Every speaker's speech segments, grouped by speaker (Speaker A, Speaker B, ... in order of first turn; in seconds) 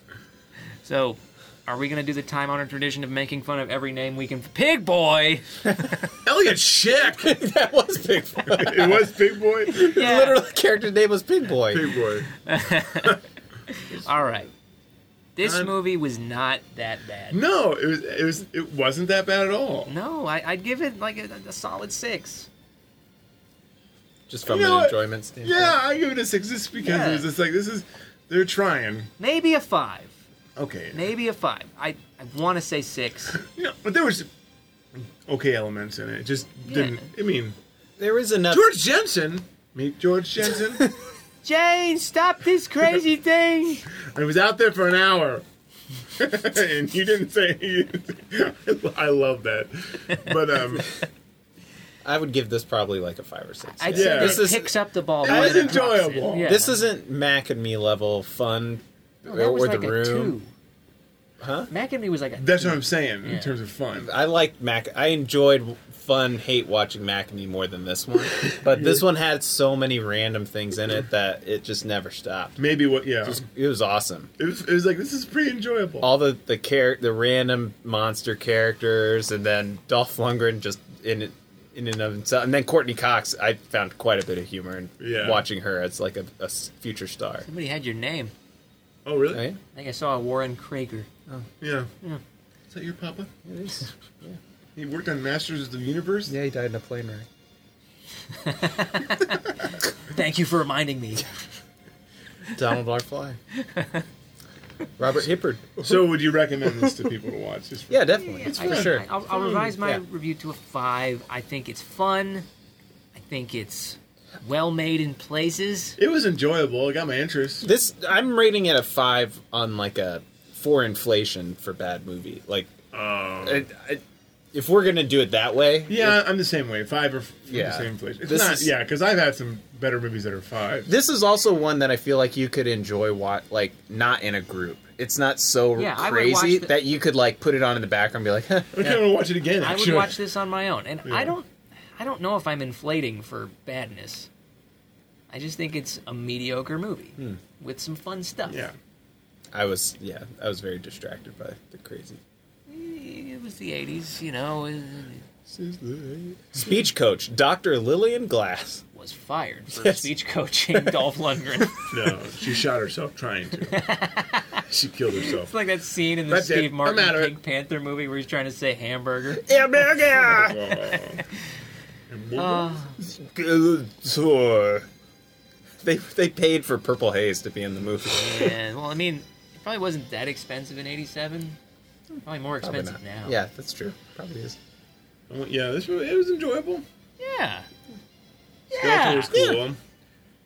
Speaker A: 0.8-5.8, 9.7-10.4, 12.4-13.2, 13.7-14.5, 15.4-17.4, 19.9-22.5, 26.8-27.3, 29.2-30.2, 30.9-33.4, 36.7-37.1, 41.4-43.8, 53.8-56.7, 59.3-60.5, 61.7-63.5, 87.4-88.3, 89.7-91.1, 98.3-101.3, 103.5-104.1, 108.2-112.5, 113.2-116.0, 135.8-136.7, 139.6-144.3, 145.3-148.7, 152.7-155.2, 158.9-161.9, 163.7-164.6, 165.3-171.3, 172.4-173.0, 178.1-181.6, 182.2-183.4, 187.2-187.7, 188.7-189.6
Speaker B: 6.2-7.4, 8.4-9.8, 11.7-12.3, 15.4-15.7, 17.3-19.9, 24.4-29.1, 30.6-31.1, 33.4-34.3, 34.9-37.6, 38.5-40.9, 44.0-45.4, 46.1-50.9, 53.9-54.5, 55.2-56.5, 62.4-64.1, 68.4-69.0, 72.6-73.4, 74.4-76.1, 85.0-85.4, 89.0-89.4, 91.6-91.9, 92.7-93.3, 94.8-96.3, 105.8-109.7, 116.0-117.7, 122.9-123.7, 125.9-130.9, 138.7-140.2, 141.1-141.3, 148.5-148.7, 155.6-156.5, 161.9-163.8, 164.6-165.5, 166.3-167.3, 170.1-171.2, 172.1-172.9, 185.3-186.8, 188.8-189.8
Speaker C: 7.0-11.9, 24.3-25.8, 38.0-38.6, 52.0-54.7, 55.2-60.4, 61.4-61.7, 64.0-72.6, 73.2-74.3, 76.0-87.5, 89.3-89.6, 93.4-94.4, 96.3-97.3, 102.5-103.4, 105.0-107.1, 107.9-109.1, 117.6-122.8, 123.4-126.2, 127.5-128.7, 130.9-139.1, 149.5-152.2, 156.5-158.8, 159.7-160.1, 160.7-161.1, 169.4-170.8, 173.0-174.9, 175.8-178.6, 182.6-184.6